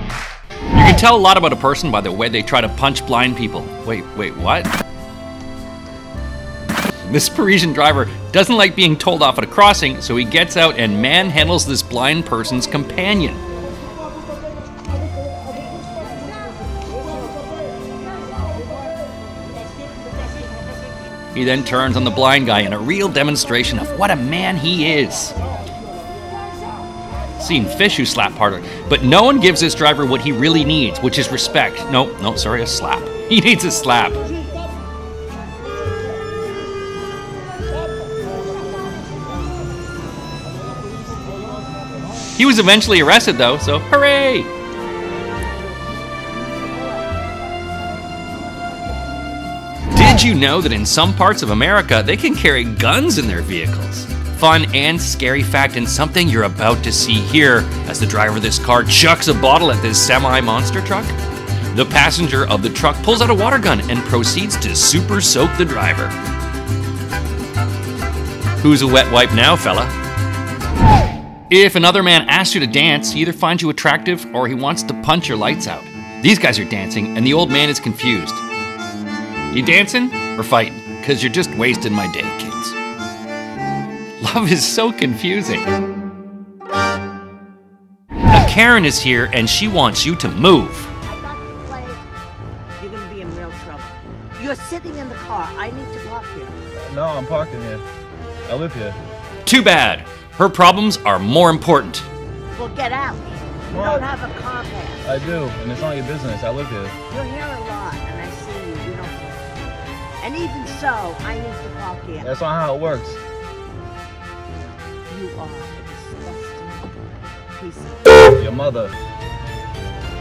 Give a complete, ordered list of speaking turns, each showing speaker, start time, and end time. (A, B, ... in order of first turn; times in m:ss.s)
0:00.7-0:04.7 A
0:07.0-0:13.4 A
0:21.3-0:25.4 A
0:27.4-0:34.2 A
0:42.4-0:44.5 A
0:49.9-1:01.2 A
1:01.7-1:06.2 A
1:08.6-1:10.0 A
1:11.5-1:18.4 A
1:19.5-1:22.8 A
1:24.2-1:25.7 A
1:28.3-1:30.9 A
1:31.0-1:32.0 B
1:32.8-1:36.6 B
1:36.8-1:37.8 C
1:38.5-1:39.0 C
1:39.4-1:42.1 A
1:42.6-1:45.1 B
1:43.7-1:44.1 C
1:45.0-1:47.0 C
1:47.1-1:52.3 B
1:52.2-1:53.2 C
1:55.1-1:58.2 B
1:58.4-1:59.0 C